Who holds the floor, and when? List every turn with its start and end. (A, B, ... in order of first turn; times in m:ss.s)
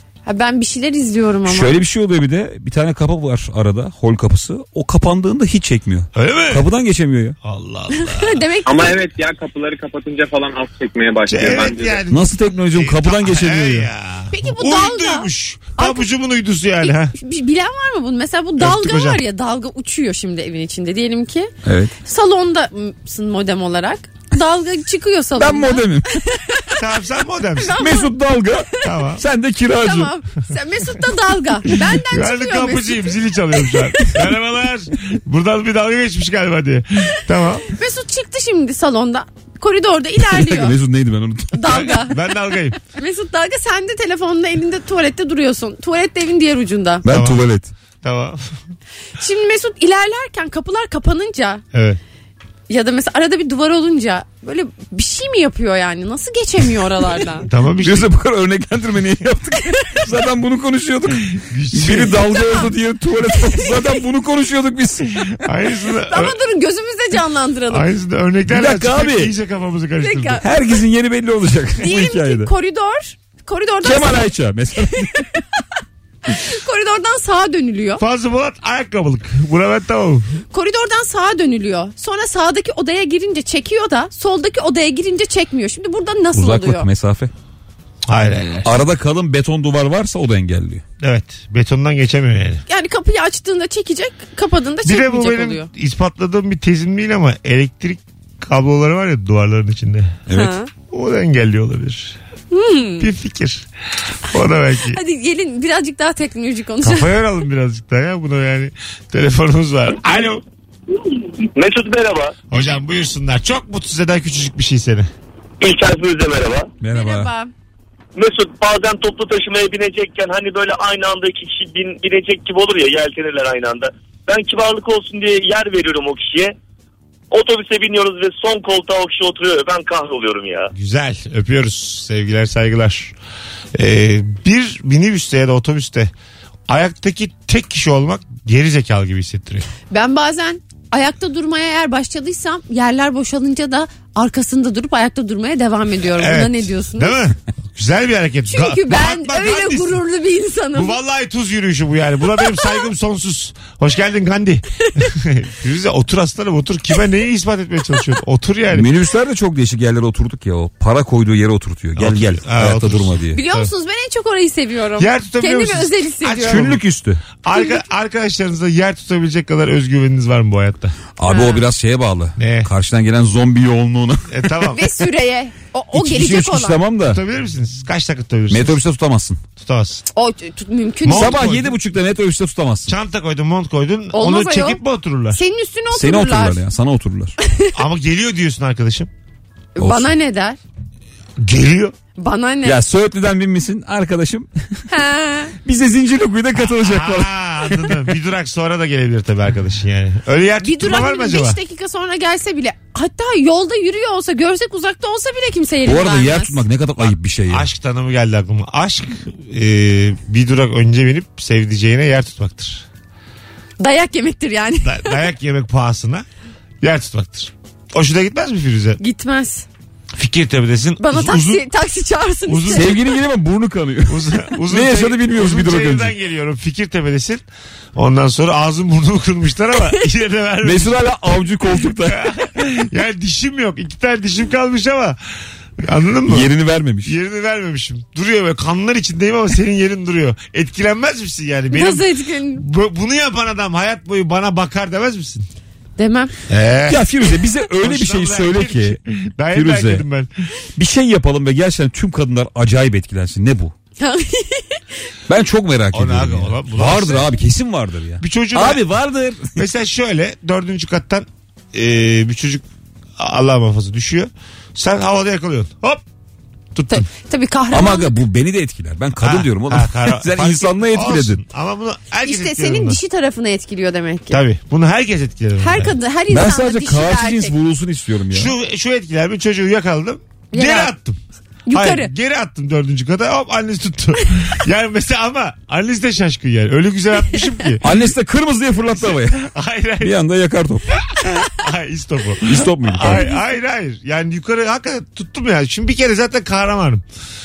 0:00.2-0:01.8 A
0:01.4-0:07.3 B
0:06.1-0:06.7 C
0:07.4-0:08.4 C
0:07.9-0:09.0 A
0:08.6-0:12.0 D
0:11.3-0:17.1 C
0:12.1-0:13.9 B
0:14.3-0:16.1 A
0:16.8-0:21.5 A
0:18.6-0:19.2 C
0:21.6-0:21.9 B
0:22.0-0:26.8 A
0:25.4-0:26.2 B
0:26.8-0:27.8 C
0:27.6-0:28.2 A
0:27.8-0:30.1 B
0:28.8-0:29.2 C
0:29.8-0:34.2 A
0:32.0-0:37.7 C
0:37.7-0:40.8 A
0:40.2-0:41.9 B
0:41.5-0:42.2 A
0:41.7-0:42.8 C
0:42.8-0:47.0 A
0:47.0-0:47.7 B
0:47.1-0:47.4 C
0:48.0-0:48.6 C
0:49.2-0:51.6 A
0:51.7-0:52.0 C
0:52.7-0:57.5 A
0:57.4-0:58.1 C
0:57.8-1:05.2 B
1:01.3-1:02.4 C
1:05.3-1:06.4 C
1:06.1-1:07.8 A
1:07.7-1:10.4 C
1:08.5-1:09.3 B
1:10.0-1:10.4 A
1:10.4-1:12.5 B
1:11.8-1:14.3 A
1:13.8-1:15.1 B
1:15.0-1:15.6 A
1:16.3-1:18.0 A
1:18.0-1:20.2 C
1:20.5-1:26.9 A
1:26.3-1:27.3 B
1:28.1-1:28.7 C
1:28.6-1:30.8 B
1:31.0-1:32.6 C
1:32.7-1:35.7 A
1:34.8-1:40.2 C
1:40.3-1:40.7 A
1:40.9-1:42.2 C
1:42.5-1:43.1 A
1:43.0-1:43.6 C
1:44.3-1:45.0 C
1:44.9-1:47.1 A
1:46.8-1:50.4 C
1:51.5-1:52.3 E
1:52.5-1:55.1 C
1:55.6-1:56.7 E
1:56.8-1:57.3 B
1:56.9-1:57.5 A
1:58.1-2:06.5 E
2:07.3-2:10.7 E
2:10.7-2:13.1 C
2:13.7-2:16.1 C
2:16.7-2:19.6 C
2:19.9-2:27.2 A
2:26.2-2:30.0 C
2:28.5-2:31.0 A
2:30.7-2:38.9 C
2:32.3-2:32.8 A
2:34.8-2:35.1 A
2:38.7-2:43.4 B
2:42.0-2:43.7 C
2:43.3-2:46.7 A
2:45.0-2:46.8 C
2:46.4-2:47.2 B
2:47.4-2:51.0 C
2:47.5-2:47.8 A
2:51.2-2:54.7 B
2:51.2-2:51.6 A
2:52.4-2:52.7 C
2:54.3-2:54.8 C
2:54.7-2:56.8 A
2:55.9-2:57.2 B
2:57.1-2:58.8 C
2:58.5-2:59.4 B
2:59.6-3:00.0 C
3:00.1-3:01.4 A
3:01.0-3:01.8 C
3:01.1-3:02.9 B
3:02.9-3:05.4 C
3:04.1-3:04.8 A
3:05.3-3:06.6 A
3:05.9-3:07.3 B
3:07.4-3:07.7 A
3:07.7-3:09.1 C
3:09.7-3:10.6 A
3:09.8-3:10.1 B
3:11.4-3:11.9 C
3:12.2-3:12.8 A
3:12.6-3:14.8 B
3:14.9-3:15.5 A
3:15.6-3:17.3 B
3:16.6-3:21.6 C
3:20.6-3:26.6 A
3:25.8-3:27.7 B
3:27.0-3:32.8 C
3:33.8-3:35.2 A
3:34.8-3:36.2 C
3:36.8-3:39.0 C
3:39.0-3:39.6 A
3:40.1-3:41.6 C
3:41.0-3:43.0 A
3:42.5-3:43.0 C
3:42.7-3:46.1 B
3:44.1-3:47.4 C
3:48.0-3:51.1 C
3:50.6-3:52.3 B
3:52.0-3:55.2 C
3:55.8-3:56.5 C
3:56.3-3:57.1 B
3:57.0-4:05.4 C
4:01.7-4:02.6 A
4:06.0-4:06.3 A
4:06.5-4:07.1 C
4:06.9-4:09.0 B
4:07.8-4:10.3 C
4:09.5-4:10.0 B
4:10.8-4:13.7 B
4:14.0-4:14.8 A
4:15.3-4:19.6 B
4:15.9-4:17.3 C
4:18.2-4:18.8 C
4:19.6-4:22.6 C
4:23.2-4:26.0 C
4:26.9-4:28.1 A
4:27.7-4:31.4 B
4:29.2-4:33.0 C
4:32.2-4:34.4 A
4:34.3-4:35.9 C
4:35.6-4:37.5 A
4:36.3-4:38.5 B
4:38.3-4:41.2 C
4:40.5-4:40.9 A
4:41.7-4:42.1 A
4:41.7-4:47.9 C
4:47.8-4:49.4 B
4:48.8-4:50.2 C
4:50.0-4:50.9 B
4:51.2-4:57.0 C
4:52.5-4:53.2 B
4:53.0-4:53.4 A